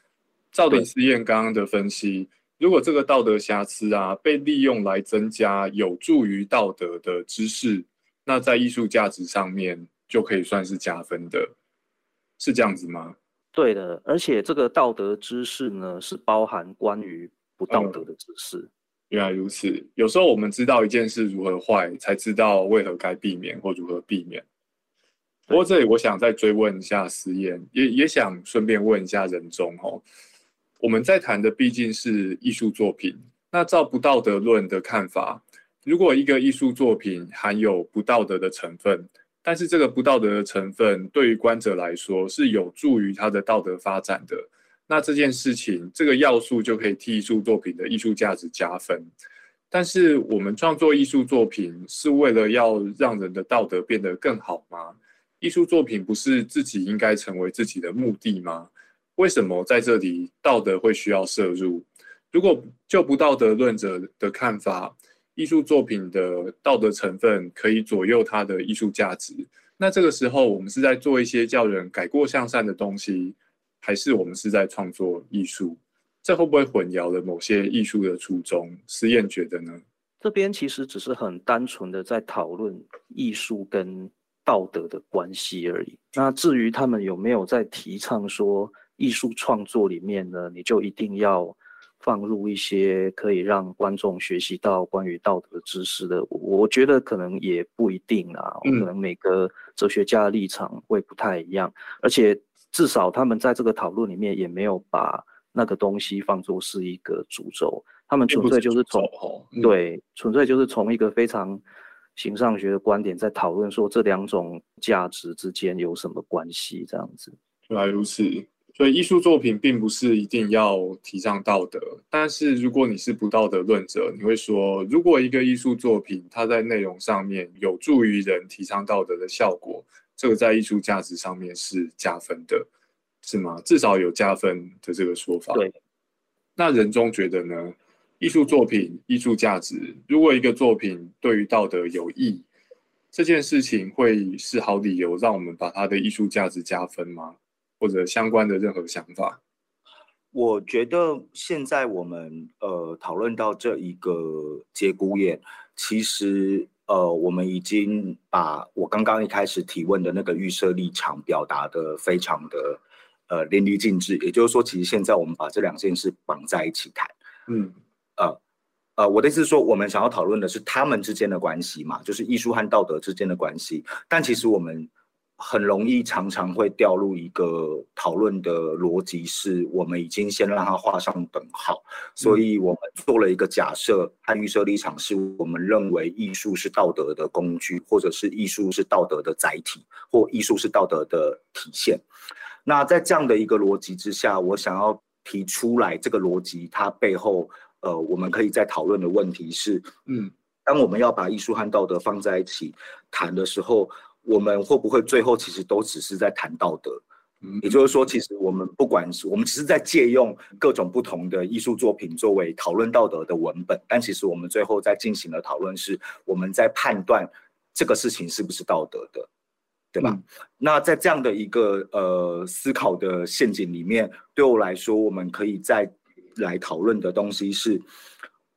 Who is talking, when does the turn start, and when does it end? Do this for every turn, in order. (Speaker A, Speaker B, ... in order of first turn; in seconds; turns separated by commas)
Speaker A: 0.5-11.5, Speaker A: 12.4-13.2, Speaker B: 13.5-18.7, Speaker A: 17.7-18.0, Speaker A: 19.1-24.4, Speaker A: 25.5-30.1, Speaker A: 30.8-49.1, Speaker A: 49.7-79.8, Speaker B: 80.2-111.6, Speaker A: 108.3-109.7, Speaker B: 112.2-117.3, Speaker A: 117.7-132.7, Speaker A: 133.2-135.6, Speaker A: 136.6-142.4, Speaker A: 143.1-149.4, Speaker C: 150.3-167.1, Speaker A: 167.5-167.8, Speaker C: 169.0-192.0, Speaker C: 192.7-199.9, Speaker C: 200.7-207.0, Speaker A: 207.4-207.8, Speaker C: 207.6-219.3, Speaker C: 219.9-227.8